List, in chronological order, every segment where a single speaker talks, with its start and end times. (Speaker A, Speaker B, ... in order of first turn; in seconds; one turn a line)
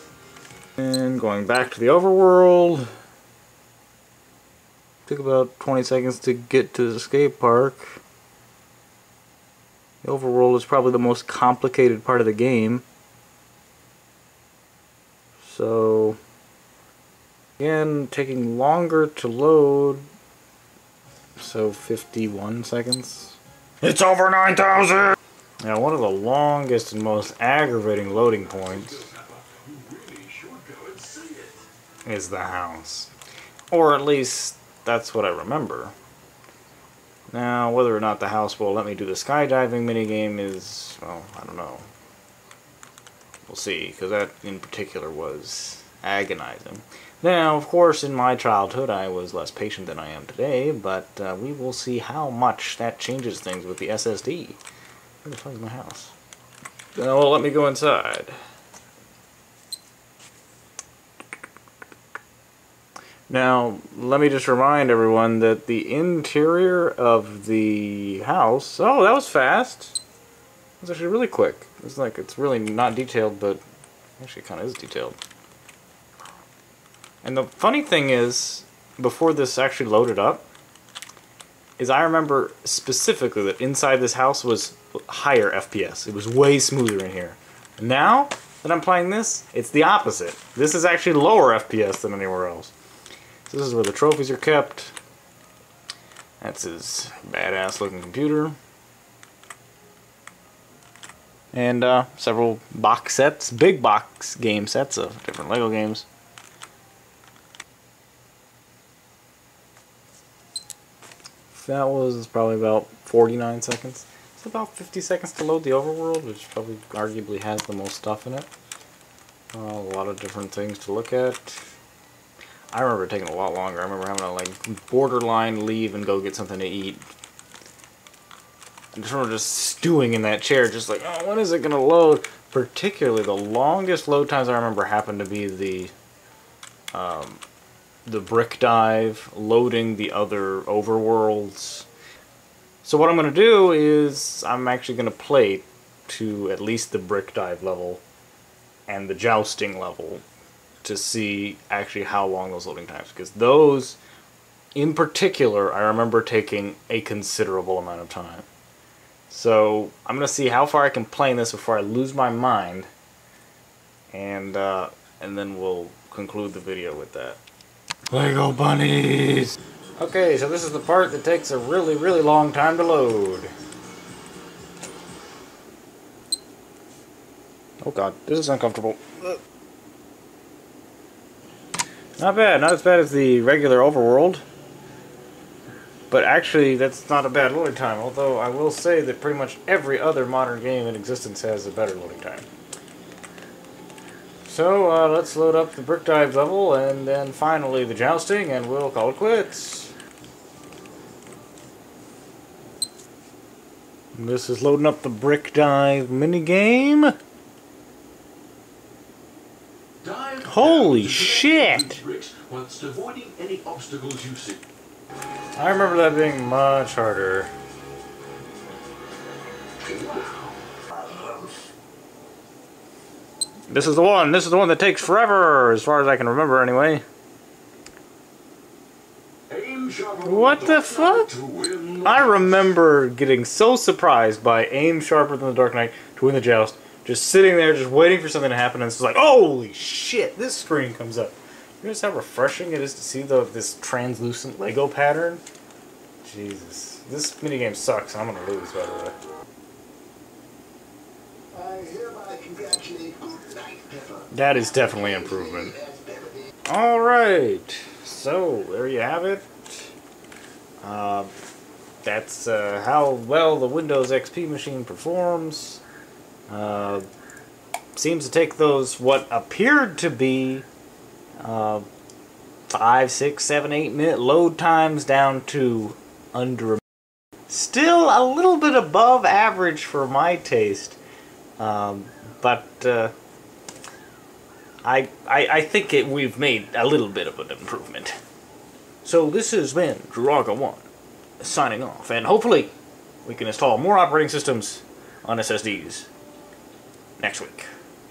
Speaker A: 0.8-2.9
Speaker A: 5.1-8.0
Speaker A: 10.0-12.8
Speaker A: 15.4-16.2
Speaker A: 17.6-20.1
Speaker A: 21.4-29.1
Speaker B: 29.5-31.5
Speaker A: 32.1-33.1
Speaker A: 33.7-35.9
Speaker A: 37.3-41.9
Speaker A: 43.5-54.6
Speaker A: 55.2-56.1
Speaker A: 57.0-58.4
Speaker A: 63.3-70.0
Speaker A: 70.8-73.6
Speaker A: 74.2-75.2
Speaker A: 77.2-80.5
Speaker A: 81.8-92.7
Speaker A: 93.5-94.9
Speaker A: 96.4-98.6
Speaker A: 101.5-106.1
Speaker A: 111.5-118.5
Speaker A: 119.5-121.7
Speaker A: 122.7-127.0
Speaker A: 128.9-135.9
Speaker A: 136.9-137.4
Speaker A: 138.1-141.9
Speaker A: 142.8-148.0
Speaker A: 148.9-150.2
Speaker A: 150.8-154.0
Speaker A: 154.8-158.4
Speaker A: 159.3-162.9
Speaker A: 164.1-167.4
Speaker A: 168.1-173.5
Speaker A: 177.8-179.4
Speaker A: 182.2-184.4
Speaker A: 186.1-192.5
Speaker A: 194.4-199.9
Speaker A: 204.1-207.1
Speaker B: 210.0-210.3
Speaker A: 210.3-212.1
Speaker B: 212.1-214.6
Speaker A: 215.6-217.5
Speaker B: 220.1-220.3
Speaker A: 223.7-227.0
Speaker B: 229.5-230.1
Speaker A: 230.1-245.4
Speaker B: 231.4-231.9
Speaker A: 246.2-249.2
Speaker B: 251.6-254.1
Speaker A: 254.1-255.8
Speaker A: 256.6-259.9
Speaker A: 260.8-261.3
Speaker A: 262.0-265.8
Speaker A: 266.5-267.1
Speaker A: 267.9-270.7
Speaker A: 271.4-271.9
Speaker A: 272.7-276.8
Speaker A: 277.5-281.0
Speaker A: 281.6-283.1
Speaker A: 284.8-288.1
Speaker A: 289.0-290.9
Speaker A: 291.4-292.7
Speaker A: 293.2-296.1
Speaker A: 297.2-297.7